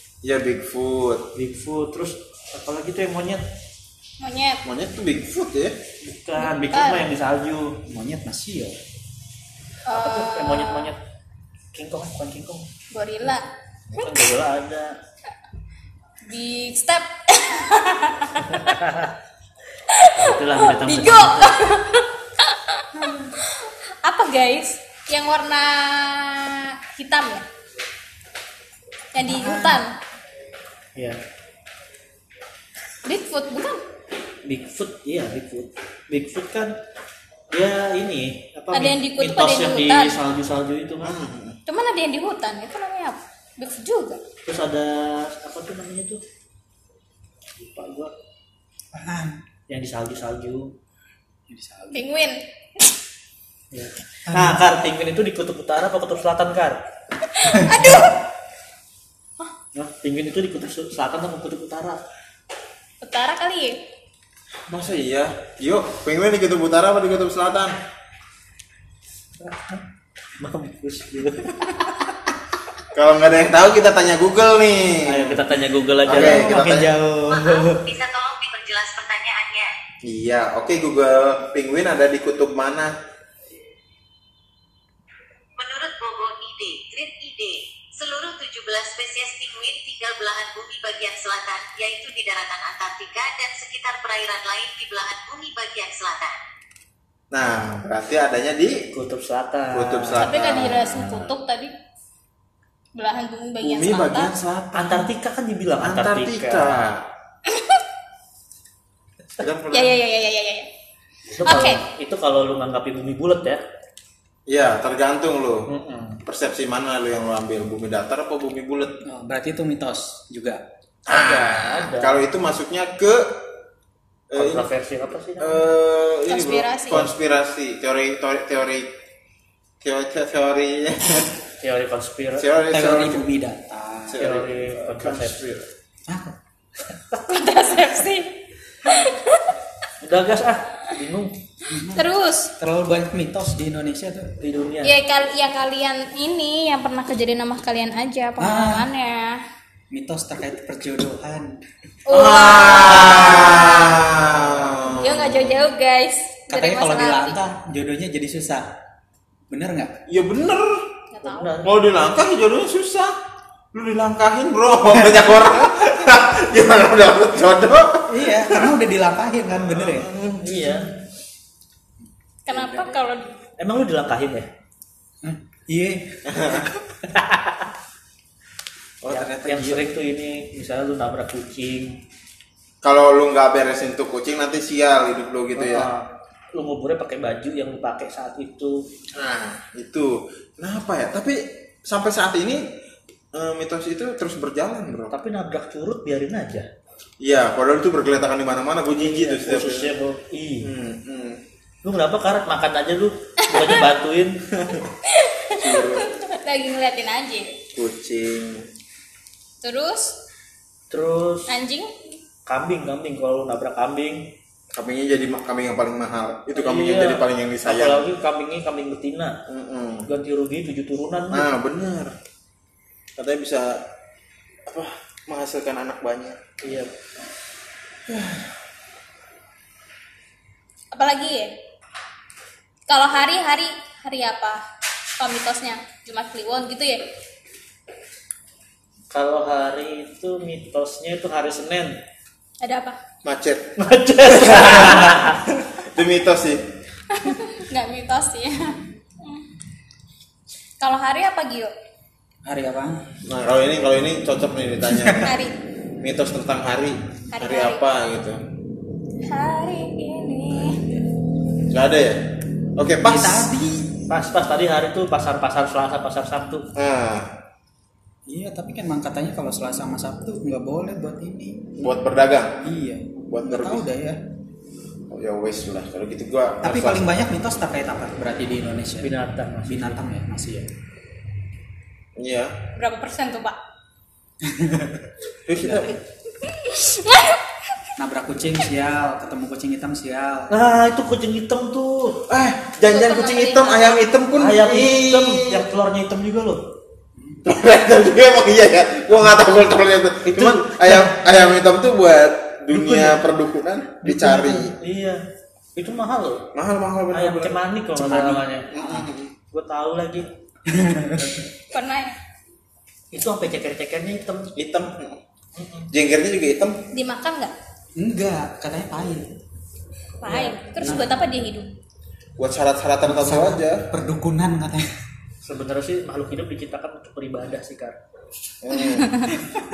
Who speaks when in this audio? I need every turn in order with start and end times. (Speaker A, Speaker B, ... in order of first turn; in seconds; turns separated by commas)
Speaker A: 0.2-1.3, Speaker B: 1.3-3.4, Speaker C: 4.2-4.6, Speaker A: 4.6-5.8, Speaker B: 6.0-7.8, Speaker C: 6.4-7.1, Speaker D: 7.9-8.8, Speaker C: 9.9-10.9, Speaker B: 9.9-11.0, Speaker B: 11.7-12.7, Speaker C: 12.9-13.5, Speaker B: 14.0-15.0, Speaker C: 16.3-18.7, Speaker B: 18.4-19.1, Speaker C: 19.9-27.4, Speaker B: 20.1-21.6, Speaker C: 29.1-29.9, Speaker D: 29.2-29.8, Speaker C: 33.0-33.8, Speaker B: 34.5-36.7, Speaker B: 37.5-41.1, Speaker C: 38.7-40.2, Speaker A: 41.0-41.6, Speaker C: 41.6-44.2, Speaker B: 44.5-46.2, Speaker B: 47.6-48.1, Speaker D: 48.9-49.4, Speaker B: 49.7-50.7, Speaker D: 51.5-52.1, Speaker C: 51.9-52.9, Speaker B: 53.7-56.8, Speaker D: 54.3-54.6, Speaker C: 57.2-58.2, Speaker B: 59.7-62.0, Speaker C: 63.0-63.8, Speaker A: 64.7-67.8, Speaker B: 69.4-69.8, Speaker B: 70.4-71.8, Speaker A: 72.9-75.5, Speaker B: 75.1-77.8, Speaker A: 76.0-76.9, Speaker D: 76.1-76.4, Speaker E: 77.3-79.7, Speaker A: 80.0-82.9, Speaker E: 85.6-96.4, Speaker A: 97.3-98.9, Speaker B: 98.9-100.3, Speaker A: 99.7-101.3, Speaker C: 100.2-101.7, Speaker C: 103.0-104.3, Speaker A: 103.6-105.1, Speaker B: 104.8-106.9, Speaker A: 105.8-107.0, Speaker C: 107.5-107.8, Speaker A: 109.4-110.0, Speaker C: 109.7-110.7, Speaker B: 111.3-113.6, Speaker C: 111.4-111.8, Speaker A: 114.5-115.7, Speaker B: 115.7-116.2, Speaker A: 116.3-118.9, Speaker D: 119.0-120.6, Speaker B: 121.1-122.2, Speaker A: 121.1-123.3, Speaker A: 124.3-124.7, Speaker B: 124.3-125.7, Speaker A: 125.4-128.9, Speaker C: 126.3-127.1, Speaker A: 129.8-131.4, Speaker B: 131.6-132.4, Speaker A: 132.4-133.2, Speaker D: 132.7-134.2, Speaker A: 134.1-135.7, Speaker B: 134.2-135.5, Speaker D: 136.1-136.4, Speaker C: 137.3-139.5, Speaker B: 140.0-141.4, Speaker D: 141.7-142.1, Speaker C: 141.9-142.5, Speaker D: 142.6-144.3, Speaker B: 144.4-145.0, Speaker C: 144.8-149.4, Speaker D: 148.4-148.9, Speaker D: 149.9-151.6, Speaker C: 152.1-154.1, Speaker A: 152.1-155.6, Speaker B: 152.8-153.6, Speaker B: 154.3-154.9, Speaker C: 154.9-157.4, Speaker D: 156.5-158.7, Speaker D: 159.5-160.0, Speaker A: 160.1-160.9, Speaker C: 161.1-161.5, Speaker B: 161.2-161.7, Speaker A: 161.6-163.1, Speaker A: 163.7-168.7, Speaker D: 164.9-166.1, Speaker D: 168.1-170.1, Speaker A: 169.7-170.8, Speaker B: 170.4-170.9, Speaker D: 172.0-173.0, Speaker C: 172.4-173.3, Speaker B: 173.6-174.5, Speaker D: 175.2-177.0, Speaker A: 176.3-176.7, Speaker B: 177.1-177.7, Speaker A: 179.0-179.9, Speaker B: 179.1-181.9, Speaker A: 182.8-185.9, Speaker B: 185.6-188.8, Speaker A: 189.2-192.7, Speaker A: 193.3-195.1, Speaker B: 195.1-196.7, Speaker A: 197.2-199.9, Speaker B: 198.9-200.7, Speaker A: 200.6-201.4, Speaker B: 201.8-204.3, Speaker A: 204.6-204.9, Speaker C: 205.1-207.6, Speaker A: 205.5-206.1, Speaker A: 207.7-208.7, Speaker C: 209.6-210.1, Speaker B: 210.9-211.5, Speaker C: 211.5-211.9, Speaker B: 212.5-214.3, Speaker A: 214.7-218.0, Speaker B: 216.5-219.4, Speaker A: 219.5-220.1, Speaker B: 220.1-221.5, Speaker A: 221.3-222.2, Speaker A: 223.2-223.8, Speaker A: 224.7-226.6, Speaker B: 226.6-226.9, Speaker A: 228.1-228.6, Speaker C: 230.9-231.5, Speaker C: 232.9-234.6, Speaker C: 235.2-237.1, Speaker B: 239.1-242.0, Speaker C: 242.6-243.0, Speaker A: 243.2-243.7, Speaker B: 243.8-245.4, Speaker A: 244.3-246.6, Speaker C: 247.1-249.5, Speaker C: 250.8-251.7, Speaker D: 252.4-253.1, Speaker A: 253.2-255.3, Speaker C: 255.2-255.6, Speaker A: 256.0-258.4, Speaker C: 257.3-257.8, Speaker C: 259.2-260.8, Speaker A: 261.7-263.6, Speaker D: 263.0-263.9, Speaker B: 264.1-266.7, Speaker A: 266.8-267.3, Speaker D: 268.3-271.7, Speaker A: 271.8-272.6, Speaker D: 272.6-274.2, Speaker A: 273.2-273.9, Speaker A: 275.1-277.2, Speaker D: 276.6-279.1, Speaker B: 279.0-280.0, Speaker D: 279.6-280.7, Speaker A: 282.1-282.5, Speaker C: 282.8-283.6, Speaker D: 284.4-285.1, Speaker A: 285.4-286.0, Speaker B: 285.6-286.0, Speaker C: 286.4-287.8, Speaker D: 288.0-290.5, Speaker B: 290.5-292.3, Speaker A: 292.3-295.6, Speaker C: 292.9-294.1, Speaker B: 294.4-296.7, Speaker D: 297.1-297.4, Speaker A: 297.4-304.7, Speaker B: 300.3-301.2, Speaker B: 302.7-303.3, Speaker B: 304.0-305.2, Speaker B: 305.8-306.4, Speaker A: 306.5-309.3, Speaker B: 307.1-308.7, Speaker D: 308.8-309.1, Speaker B: 309.5-310.3, Speaker D: 310.7-311.4, Speaker C: 311.7-312.2, Speaker B: 313.1-314.5, Speaker A: 314.6-315.2, Speaker B: 315.6-315.9, Speaker A: 315.9-316.8, Speaker C: 316.9-317.5, Speaker D: 318.0-319.3, Speaker C: 320.2-321.7, Speaker D: 320.8-321.1, Speaker A: 322.4-323.8, Speaker D: 323.0-324.9, Speaker B: 325.4-328.0, Speaker A: 328.6-329.3, Speaker C: 328.7-329.4